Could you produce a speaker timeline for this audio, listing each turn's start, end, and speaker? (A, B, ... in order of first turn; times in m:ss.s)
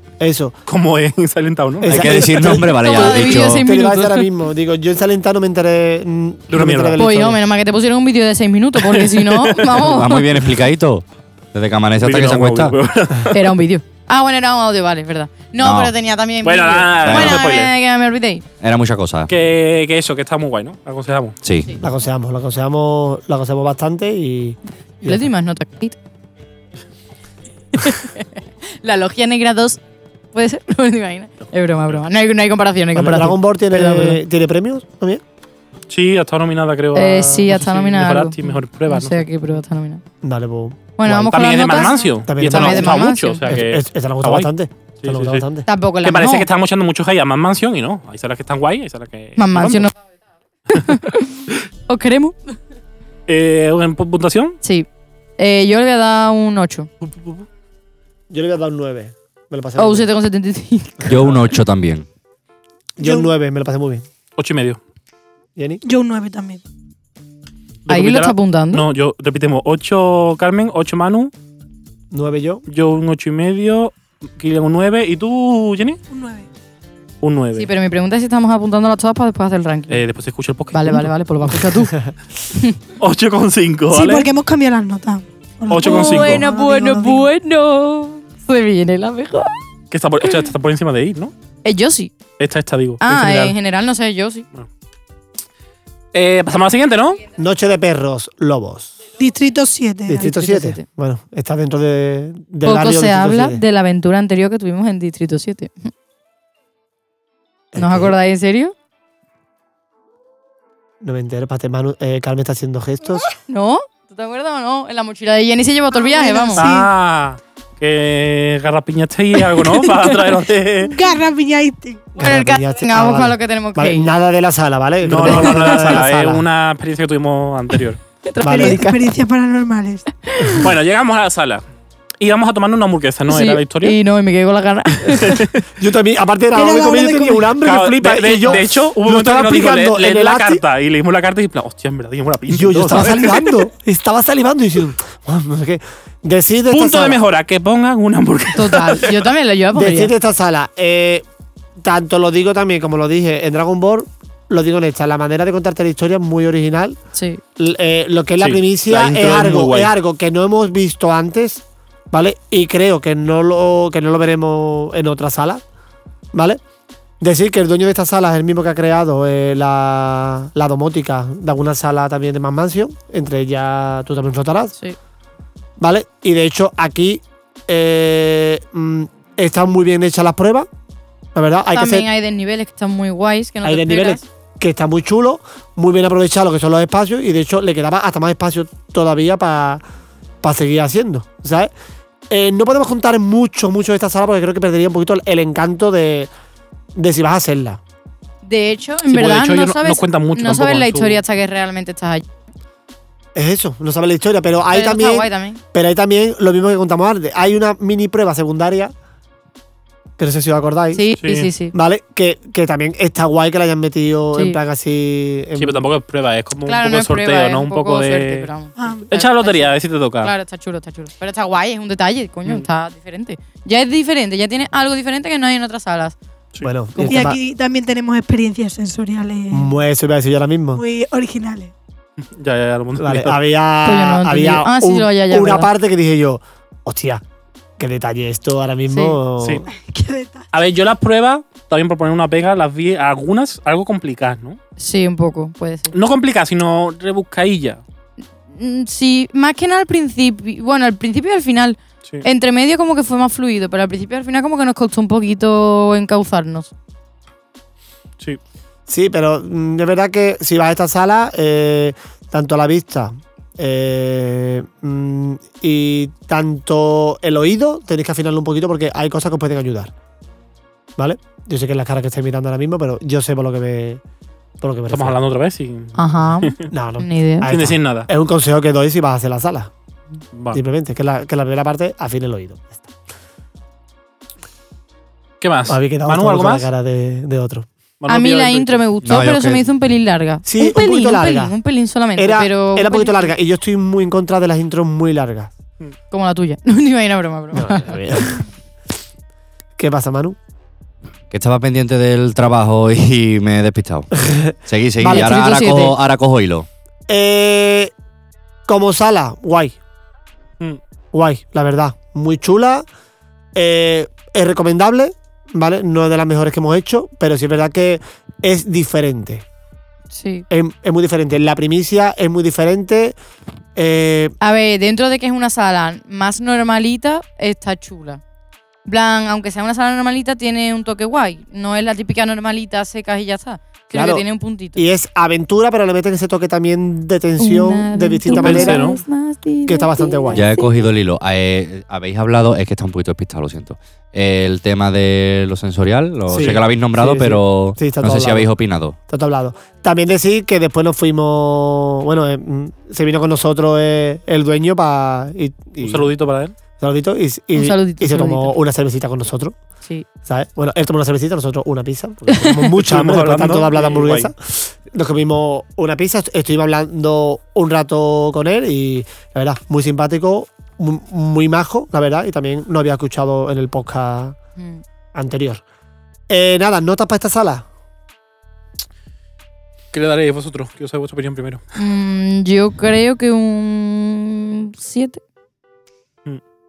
0:00.2-0:00.6 A
0:00.7-0:02.3 B
0:01.8-0:07.4 A
0:01.8-0:03.7 C
0:02.4-0:04.3 D
0:06.5-0:07.0 B
0:07.0-0:10.2 D
0:08.8-0:09.8 B
0:09.8-0:12.8 C
0:12.0-0:13.4 B
0:13.3-0:18.4 D
0:15.6-0:15.9 C
0:16.4-0:17.7 B
0:17.0-0:17.4 C
0:18.6-0:19.3 C
0:19.3-0:21.4 B
0:21.4-0:21.8 C
0:21.8-0:25.3 A
0:25.0-0:26.0 D
0:27.8-0:29.8 D
0:30.3-0:34.2 D
0:33.0-0:35.2 A
0:35.9-0:39.3 B
0:37.0-0:40.0 D
0:40.2-0:41.6 A
0:41.0-0:43.4 D
0:41.3-0:44.5 B
0:42.2-0:45.7 A
0:45.0-0:45.5 B
0:45.7-0:46.5 D
0:46.0-0:49.9 B
0:49.4-0:49.9 D
0:50.7-0:52.4 D
0:53.3-0:54.6 B
0:54.6-0:54.9 D
0:55.4-0:56.9 D
0:57.1-0:57.4 B
0:58.3-1:00.1 A
0:59.8-1:01.2 D
1:01.0-1:02.1 C
1:03.0-1:04.0 A
1:03.0-1:03.3 E
1:04.4-1:04.8 B
1:05.6-1:05.8 A
1:05.8-1:06.6 E
1:07.9-1:11.3 B
1:07.9-1:08.8 D
1:12.1-1:12.6 A
1:12.7-1:16.0 B
1:16.1-1:16.5 E
1:17.2-1:17.7 B
1:17.6-1:20.0 D
1:19.9-1:21.1 B
1:20.7-1:21.9 D
1:21.7-1:22.1 A
1:23.0-1:24.3 B
1:23.9-1:27.3 E
1:25.7-1:26.4 B
1:25.8-1:29.5 D
1:29.9-1:31.3 B
1:31.6-1:32.1 D
1:32.4-1:33.6 B
1:33.0-1:34.4 D
1:36.1-1:37.2 B
1:37.4-1:38.9 A
1:39.2-1:40.6 E
1:40.1-1:43.6 A
1:40.2-1:40.8 D
1:42.6-1:45.9 D
1:47.7-1:48.2 A
1:47.8-1:48.7 D
1:51.0-1:53.3 A
1:53.5-1:56.7 D
1:55.9-1:56.9 E
1:56.6-2:00.9 B
2:00.9-2:02.1 E
2:02.2-2:06.4 A
2:02.2-2:04.1 D
2:05.0-2:08.0 B
2:05.3-2:06.0 D
2:08.3-2:09.0 D
2:08.4-2:08.8 A
2:08.4-2:10.0 E
2:10.3-2:10.7 D
2:10.6-2:11.6 B
2:12.2-2:14.0 B
2:13.3-2:15.5 D
2:15.1-2:15.6 B
2:15.8-2:20.6 A
2:16.5-2:17.5 E
2:17.6-2:23.6 B
2:22.5-2:27.2 A
2:26.7-2:29.2 B
2:28.5-2:30.1 D
2:29.7-2:31.2 A
2:31.8-2:37.0 A
2:37.1-2:37.4 D
2:37.6-2:45.6 A
2:38.4-2:39.9 B
2:46.3-2:46.6 A
2:47.2-2:54.8 A
2:55.8-3:00.7 A
3:01.4-3:02.1 A
3:01.7-3:04.2 D
3:03.6-3:09.8 A
3:10.4-3:11.7 A
3:12.3-3:16.3 A
3:17.0-3:17.8 A
3:18.4-3:22.2 D
3:19.1-3:21.2 B
3:23.4-3:28.9 A
3:24.7-3:25.6 D
3:30.2-3:31.1 A
3:30.9-3:31.7 D
3:31.2-3:31.5 B
3:31.7-3:35.8 A
3:35.6-3:38.5 B
3:36.7-3:46.2 D
3:38.8-3:39.1 E
3:39.1-3:40.3 B
3:46.6-3:47.4 A
3:47.0-3:49.7 E
3:49.5-3:50.8 A
3:50.7-3:51.7 E
3:52.4-3:53.4 B
3:53.0-3:57.2 A
3:53.8-3:55.7 D
3:57.8-3:59.7 A
3:58.9-3:59.2 D
3:59.7-4:00.5 E
4:00.5-4:04.6 B
4:04.8-4:05.9 D
4:05.9-4:07.8 B
4:08.5-4:16.7 D
4:18.9-4:29.9 A
4:31.0-4:34.0 A
4:34.6-4:35.2 A
4:34.9-4:36.7 B
4:36.0-4:37.5 D
4:36.7-4:39.7 A
4:37.5-4:38.1 B
4:40.4-4:40.6 B
4:40.5-4:42.9 A
4:45.4-4:46.7 B
4:45.7-4:47.7 A
4:48.0-4:48.8 B
4:48.1-4:53.3 D
4:49.0-4:49.6 C
4:50.4-4:51.6 A
4:52.2-4:55.5 A
4:56.1-4:58.0 D
4:57.5-4:58.4 A
4:59.8-5:00.4 A
5:01.3-5:06.7 C
5:04.2-5:05.4 A
5:05.0-5:05.9 D
5:07.1-5:07.9 A
5:08.7-5:09.8 A
5:11.1-5:12.9 A
5:13.6-5:19.4 A
5:20.1-5:20.4 D
5:20.5-5:23.2 A
5:23.8-5:24.4 A
5:24.4-5:28.2 D
5:28.9-5:34.8 D
5:33.9-5:34.2 A
5:34.8-5:38.9 A
5:37.4-5:40.7 D
5:38.3-5:39.0 B
5:39.6-5:40.5 A
5:40.3-5:49.0 C
5:46.3-5:48.5 A
5:49.1-5:56.1 A
5:55.8-5:56.5 B
5:56.8-5:59.6 A
5:57.6-5:58.6 D
6:00.3-6:14.4 A
6:02.3-6:02.6 D
6:02.8-6:04.3 B
6:14.6-6:14.8 D
6:15.1-6:15.6 A
6:16.3-6:17.6 A
6:19.9-6:21.6 B
6:21.8-6:25.2 D